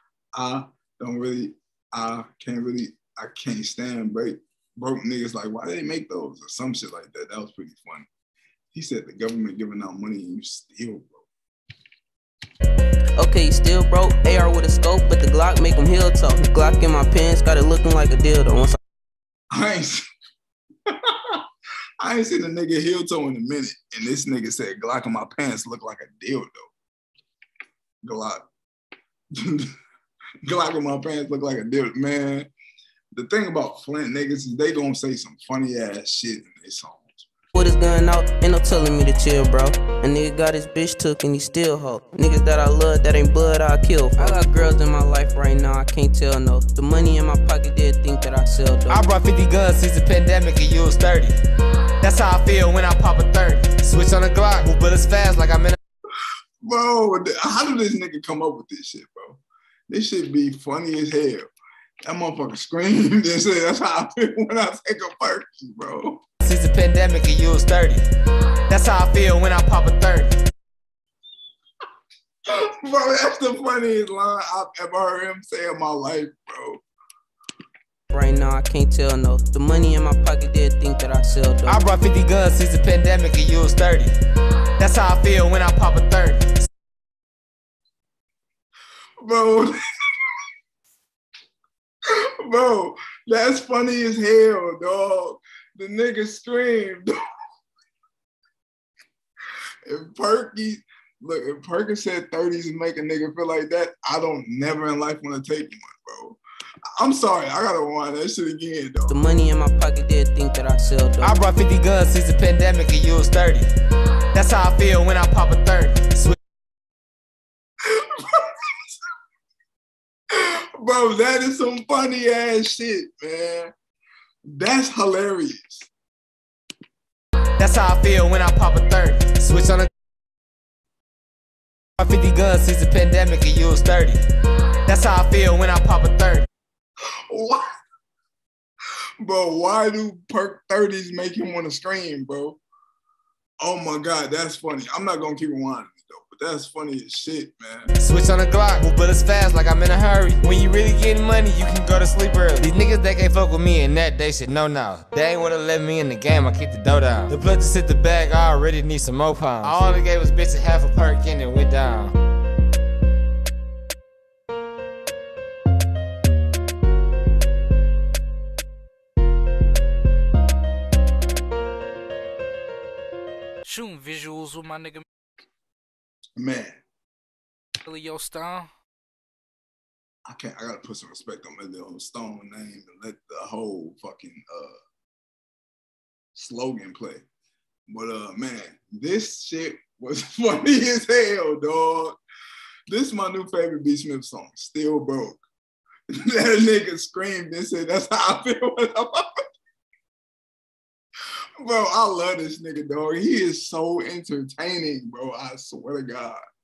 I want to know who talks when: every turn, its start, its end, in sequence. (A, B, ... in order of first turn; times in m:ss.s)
0:00.3-0:08.1 A
0:08.7-0:11.3 A
0:13.2-0:18.8 B
0:19.5-0:20.0 A
0:20.9-0:21.4 A
0:22.0-0:26.7 A
0:28.0-0:28.4 A
0:29.3-0:29.7 A
0:30.4-0:32.5 A
0:33.1-0:37.3 A
0:37.6-0:49.1 B
0:48.9-0:51.4 C
0:52.0-0:55.8 C
0:56.6-1:01.5 A
1:02.0-1:06.2 A
1:06.4-1:08.0 C
1:08.7-1:10.3 C
1:12.6-1:16.8 A
1:18.1-1:21.8 B
1:21.7-1:24.1 C
1:24.8-1:26.7 C
1:29.2-1:29.7 A
1:32.1-1:37.1 A
1:39.8-1:46.4 A
1:47.0-1:49.2 A
1:49.1-1:51.4 B
1:51.2-1:53.7 C
1:54.3-1:56.4 C
1:58.0-1:58.5 A
2:00.3-2:03.7 A
2:04.5-2:05.9 A
2:07.6-2:09.9 C
2:12.0-2:14.2 C
2:14.9-2:16.5 C
2:17.3-2:17.7 A
2:19.2-2:22.6 A
2:23.6-2:27.9 A
2:28.0-2:42.1 C
2:53.6-2:55.0 D
2:56.4-2:56.8 A
2:57.8-2:58.7 D
3:00.3-3:04.8 A
3:06.4-3:07.2 A
3:07.9-3:12.2 A
3:12.9-3:15.4 A
3:16.1-3:19.3 A
3:21.6-3:26.4 A